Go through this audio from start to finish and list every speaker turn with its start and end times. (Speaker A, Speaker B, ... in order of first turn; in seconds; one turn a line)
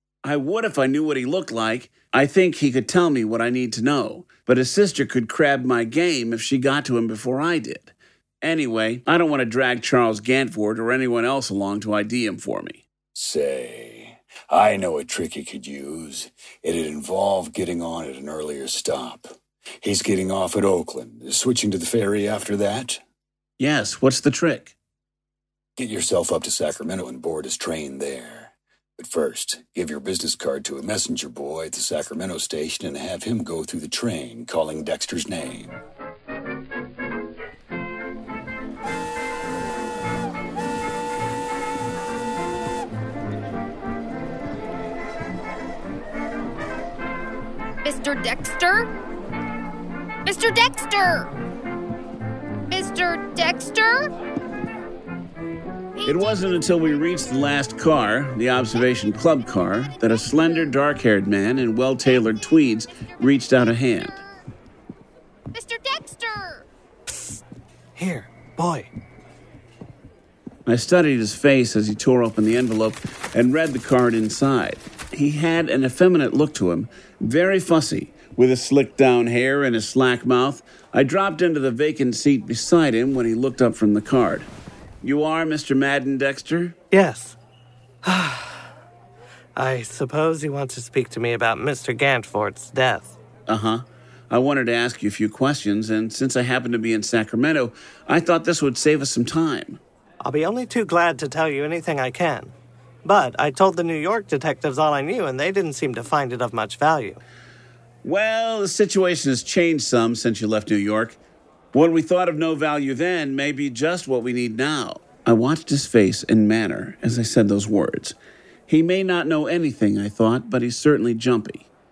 Speaker A: 0.2-12.8
Speaker B: 13.1-23.0
Speaker A: 23.6-24.7
Speaker B: 25.8-35.8
Speaker C: 47.8-48.9
Speaker C: 50.2-51.3
Speaker C: 52.7-54.1
Speaker C: 56.0-56.3
Speaker A: 56.0-64.2
Speaker C: 65.5-66.6
Speaker D: 68.0-68.9
Speaker A: 70.7-84.5
Speaker A: 85.0-86.7
Speaker D: 86.9-87.3
Speaker D: 88.0-88.7
Speaker D: 89.5-93.2
Speaker A: 93.5-99.8
Speaker D: 100.2-102.5
Speaker D: 103.0-107.2
Speaker A: 108.0-111.2
Speaker A: 111.7-118.2
Speaker A: 118.7-121.7